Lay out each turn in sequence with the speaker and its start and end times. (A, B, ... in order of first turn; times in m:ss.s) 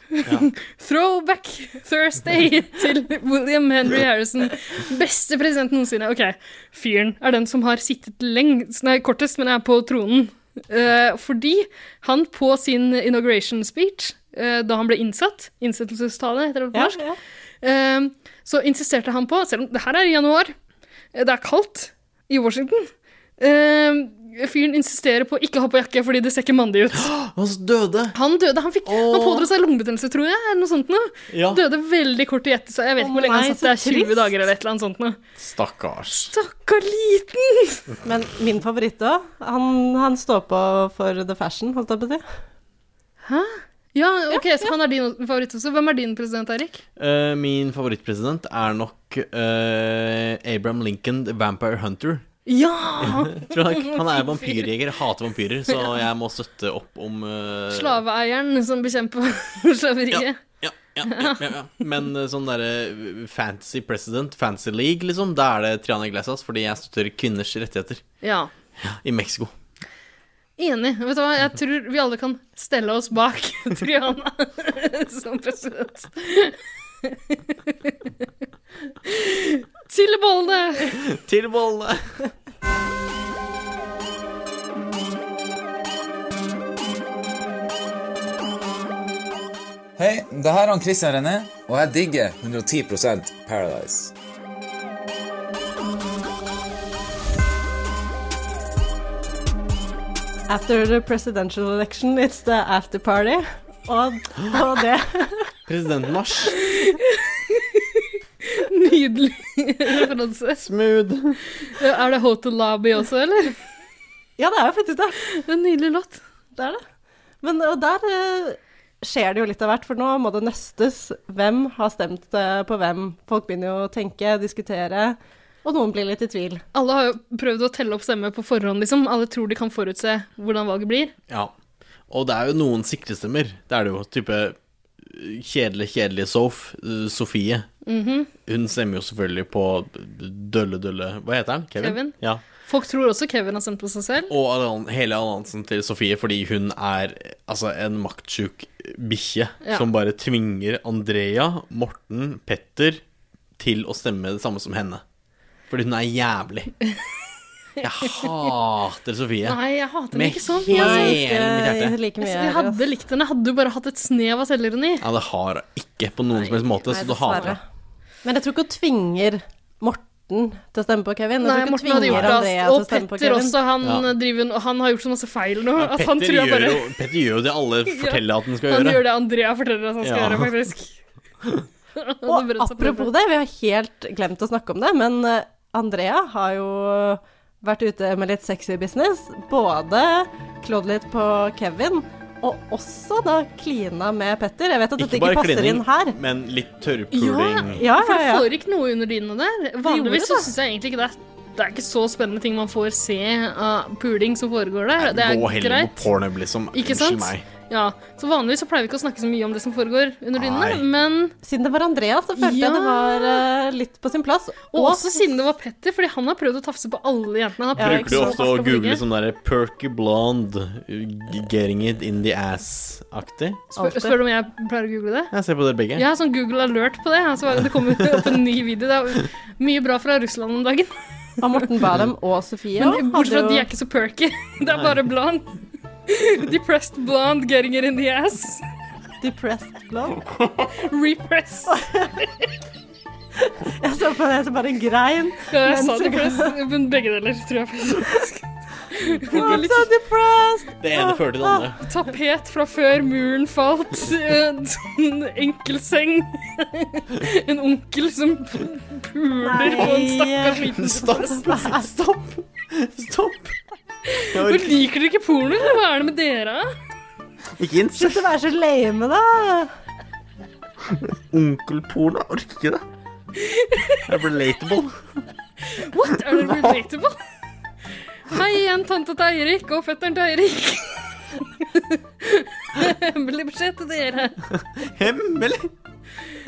0:00.1-0:17.0 A
0:16.7-0:17.2 B
0:17.6-0:20.5 A
0:21.1-0:27.1 A
0:26.9-0:28.1 C
0:28.1-0:35.2 A
0:28.8-0:29.5 C
0:31.3-0:31.6 C
0:33.0-0:34.4 B
0:35.4-0:36.3 C
0:36.3-0:37.8 A
0:38.0-0:42.2 B
0:43.2-0:46.8 A
0:44.3-0:44.7 B
0:47.0-0:52.2 C
0:52.4-0:54.6 A
0:53.0-0:58.0 C
0:57.7-1:00.4 A
1:00.1-1:08.0 C
1:01.0-1:01.4 A
1:08.2-1:08.5 A
1:08.8-1:09.5 C
1:10.6-1:18.1 A
1:19.0-1:20.9 A
1:20.9-1:22.0 C
1:30.0-1:34.1 D
1:40.5-1:45.5 B
1:45.7-1:46.9 C
1:46.7-1:50.7 A
1:50.6-1:51.4 C
1:51.6-1:53.5 A
1:54.4-1:55.2 B
1:55.2-1:56.2 A
1:56.5-1:56.8 B
1:57.4-2:06.6 B
2:06.7-2:11.1 A
2:12.1-2:17.7 C
2:17.8-2:18.3 A
2:18.4-2:22.4 C
2:21.8-2:24.3 A
2:24.3-2:33.0 C
2:33.6-2:35.0 C
2:35.7-2:36.7 C
2:37.8-2:39.6 C
2:38.0-2:38.3 A
2:39.4-2:41.2 A
2:40.1-2:42.0 C
2:40.7-2:42.8 B
2:42.2-2:45.0 A
2:45.0-2:47.6 C
2:46.8-2:47.6 B
2:48.2-2:53.6 B
2:51.4-2:56.9 A
2:52.1-2:52.3 C
2:53.8-2:54.1 C
2:55.8-2:59.0 C
2:57.9-3:01.0 A
3:00.0-3:00.5 C
3:02.0-3:03.1 A
3:02.2-3:16.2 B
3:15.0-3:17.8 C
3:17.1-3:26.0 A
3:17.6-3:18.5 B
3:19.8-3:20.5 B
3:25.0-3:27.4 C
3:26.7-3:31.3 A
3:30.4-3:30.8 C
3:31.4-3:35.3 B
3:32.4-3:33.4 A
3:34.7-3:39.0 A
3:37.8-3:38.7 B
3:37.8-3:43.6 C
3:43.7-3:45.3 A
3:43.8-3:44.2 B
3:45.3-3:46.0 C
3:46.0-3:50.9 A
3:48.0-3:48.3 C
3:51.4-3:53.7 B
3:52.8-3:58.7 A
3:59.2-4:00.2 B
4:00.3-4:00.7 C
4:00.8-4:01.8 A
4:01.7-4:02.2 B
4:03.4-4:06.5 B
4:05.5-4:09.9 A
4:09.3-4:11.7 B
4:10.8-4:11.8 C
4:11.8-4:21.5 A
4:19.4-4:21.9 B
4:20.8-4:23.5 C
4:24.1-4:26.7 A
4:24.3-4:24.8 C
4:27.6-4:28.3 C
4:28.0-4:29.7 B
4:30.9-4:32.8 C
4:33.3-4:34.0 A
4:34.1-4:35.0 C
4:35.7-4:37.2 A
4:36.4-4:36.6 C
4:38.3-4:44.4 A
4:44.5-4:45.7 C